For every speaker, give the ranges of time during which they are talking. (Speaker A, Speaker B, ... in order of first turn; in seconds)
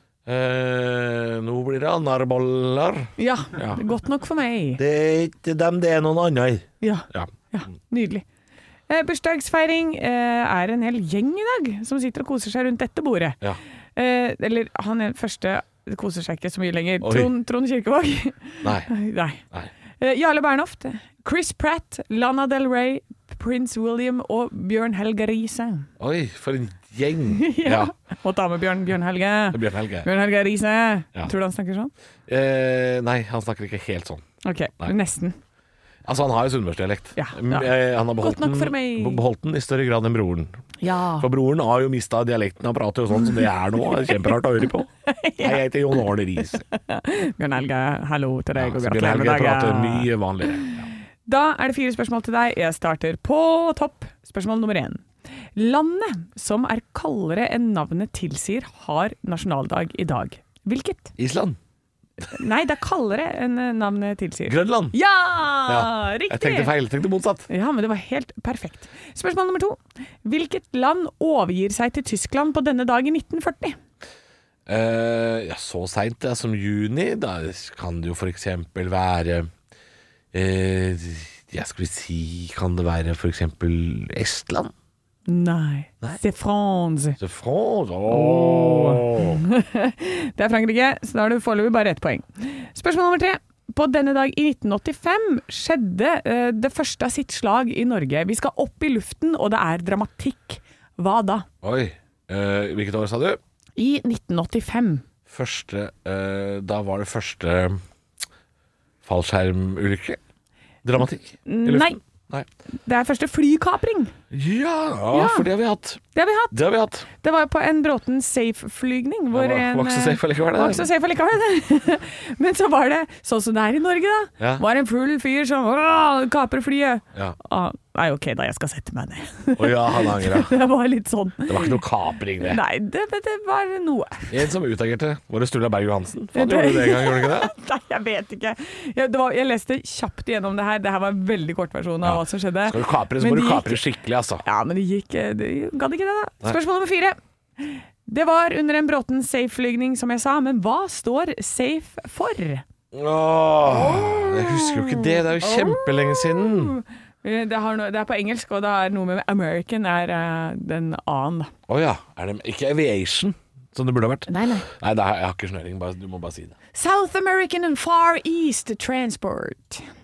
Speaker A: 0.3-3.8, 4.8-7.3, 17.0-17.3, 18.6-18.9, 26.0-27.9, 29.5-30.1, 32.3-34.2, 36.0-40.6, 41.2-46.6, 48.5-50.9, 61.2-61.6, 64.5-65.0, 65.7-67.5, 74.7-79.5, 80.3-84.7, 87.2-89.4, 101.6-103.4, 105.3-107.8, 109.0-110.2, 110.8-112.5, 114.3-116.0, 116.5-117.1, 119.3-120.9, 129.6-130.5, 131.5-132.6, 134.3-137.5, 142.0-144.4, 152.9-156.8, 161.7-166.6
Speaker B: 3.2-4.8, 6.8-8.2, 8.9-13.4, 14.0-19.4, 20.0-25.9, 27.3-31.9, 34.4-35.4, 37.2-39.2, 40.8-41.3, 45.1-45.6, 46.4-50.1, 51.3-55.0, 55.6-61.1, 62.3-66.7, 67.5-73.8, 85.3-87.2, 88.1-101.5, 103.8-105.0, 111.5-112.0, 112.8-114.1, 115.1-115.5, 116.1-116.5, 117.2-131.8, 132.4-134.4, 136.3-143.8, 144.4-152.6, 153.7-161.5, 164.3-164.7, 166.7-169.9